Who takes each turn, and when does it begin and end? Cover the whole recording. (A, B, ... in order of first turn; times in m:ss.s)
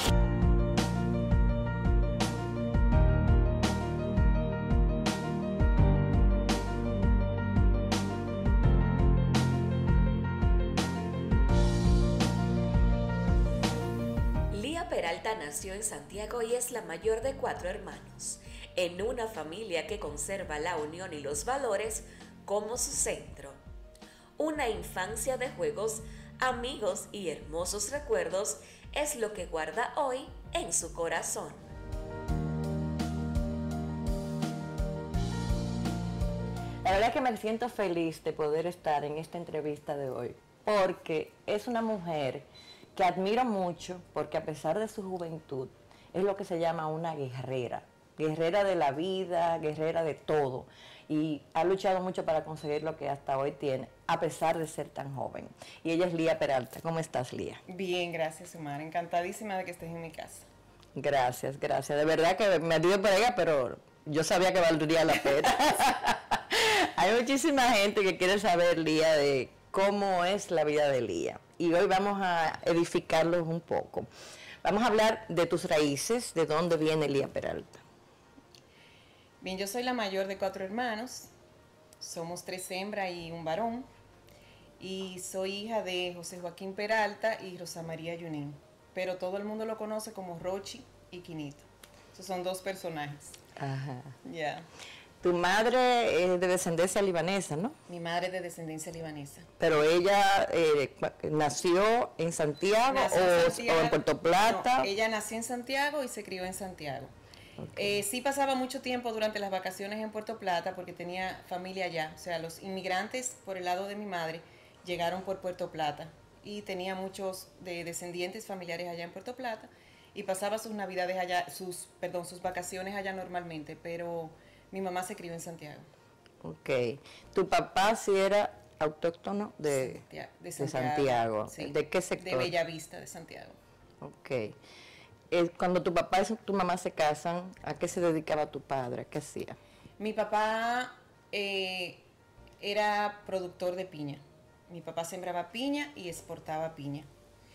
0:14.5-0:23.6 A
0:24.4-0:31.6 A
0:36.8-0:57.6 B
0:57.7-1:00.5 C
1:01.0-1:14.1 B
1:14.6-1:17.8 B
1:19.4-1:21.3 C
1:22.0-1:23.9 C
1:24.8-1:33.4 C
1:33.6-1:34.2 B
1:34.2-1:34.7 C
1:35.2-1:37.8 B
1:37.9-1:39.5 C
1:39.6-1:44.9 B
1:42.9-1:47.1 C
1:47.6-1:48.0 B
1:47.8-2:05.9 C
2:06.4-2:10.0 B
2:09.7-2:13.6 C
2:10.6-2:12.5 B
2:14.0-2:14.6 B
2:15.3-2:19.6 B
2:20.0-2:22.0 C
2:22.6-2:27.1 C